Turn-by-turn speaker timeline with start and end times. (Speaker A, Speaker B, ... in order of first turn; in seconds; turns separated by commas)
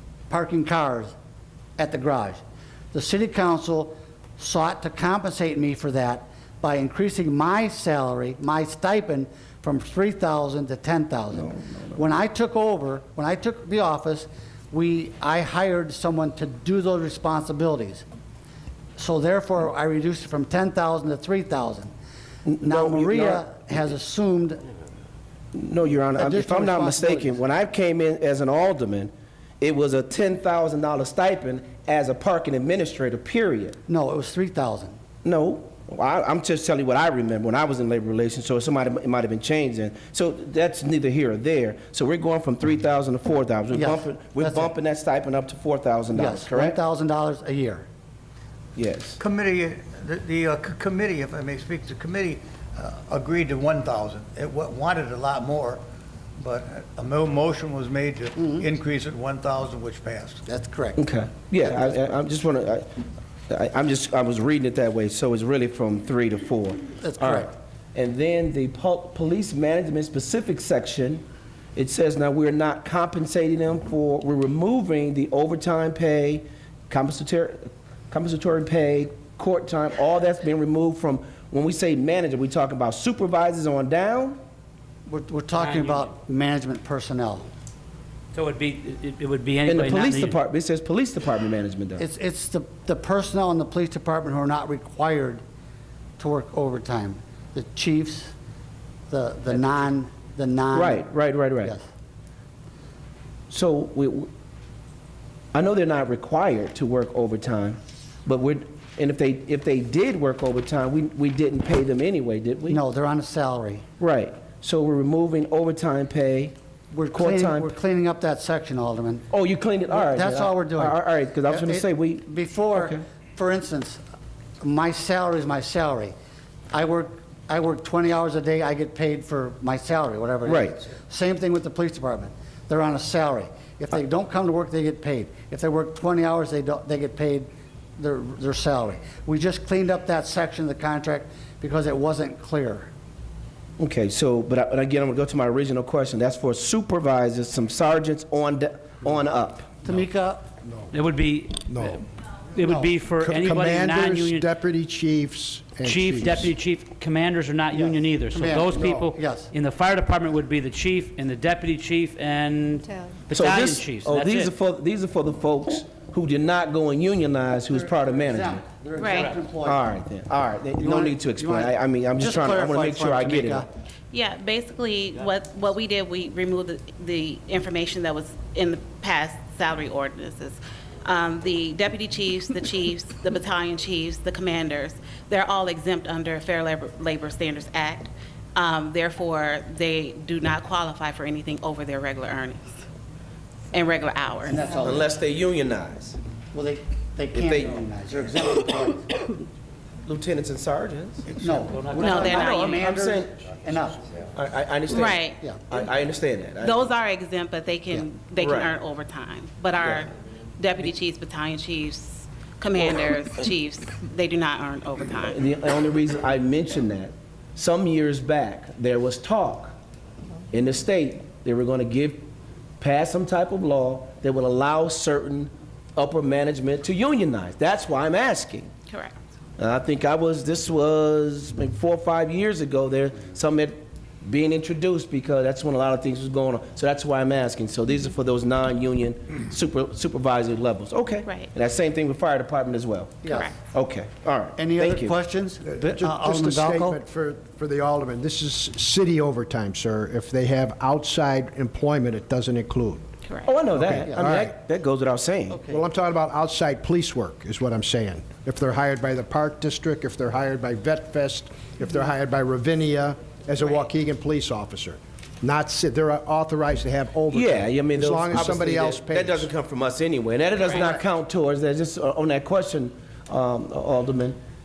Speaker A: 0.3-1.1, Speaker A: 1.8-2.4, Speaker A: 2.9-18.1, Speaker B: 11.3-12.0, Speaker A: 19.0-21.9, Speaker B: 22.4-23.5, Speaker A: 22.6-24.6, Speaker B: 25.5-33.8, Speaker A: 26.1-27.4, Speaker A: 33.9-35.0, Speaker B: 35.2-46.8, Speaker A: 43.7-44.7, Speaker A: 46.1-47.9, Speaker B: 48.8-49.2, Speaker C: 49.2-55.8, Speaker C: 56.4-60.4, Speaker A: 58.4-58.7, Speaker A: 60.5-61.0, Speaker B: 61.0-62.9, Speaker B: 63.5-71.2, Speaker A: 67.0-67.5, Speaker B: 71.8-84.4, Speaker A: 85.1-87.5, Speaker D: 85.5-86.1, Speaker D: 88.3-90.4, Speaker B: 89.7-92.0, Speaker A: 92.0-95.4, Speaker A: 96.2-98.3, Speaker A: 99.1-101.1, Speaker B: 100.7-101.7, Speaker B: 103.5-104.3, Speaker B: 105.5-112.8, Speaker A: 112.7-113.8, Speaker B: 114.0-116.5, Speaker A: 116.9-119.3, Speaker B: 117.1-117.8, Speaker B: 119.3-123.0, Speaker A: 119.9-124.0, Speaker A: 124.6-126.1, Speaker A: 126.7-142.9, Speaker B: 130.5-130.8, Speaker B: 143.8-149.8, Speaker A: 149.8-150.5, Speaker E: 150.6-150.9, Speaker D: 150.9-154.5, Speaker E: 151.7-152.0, Speaker A: 152.6-152.9, Speaker E: 153.2-156.6, Speaker D: 155.8-164.5, Speaker A: 157.8-159.5, Speaker B: 163.3-168.6, Speaker A: 167.7-169.9, Speaker F: 169.0-169.3, Speaker B: 169.7-173.7, Speaker A: 170.7-173.7, Speaker F: 174.1-192.8, Speaker F: 193.7-194.8, Speaker A: 194.5-195.1, Speaker B: 194.8-196.2, Speaker A: 196.5-199.3, Speaker B: 197.3-197.9, Speaker B: 200.1-201.4, Speaker A: 201.4-204.0, Speaker D: 201.6-202.5, Speaker F: 202.0-202.8, Speaker B: 202.0-203.3, Speaker B: 204.3-206.9, Speaker F: 204.9-205.4, Speaker F: 206.6-215.4, Speaker B: 208.4-208.7, Speaker B: 215.2-219.8, Speaker B: 220.5-222.3, Speaker B: 222.8-228.7, Speaker F: 228.9-229.1, Speaker B: 229.6-245.2, Speaker A: 243.2-243.5, Speaker F: 243.3-243.6, Speaker A: 244.6-247.0, Speaker E: 245.7-253.1, Speaker B: 253.4-255.6, Speaker E: 253.8-254.5, Speaker A: 255.5-255.8, Speaker E: 255.7-269.5, Speaker B: 267.3-274.4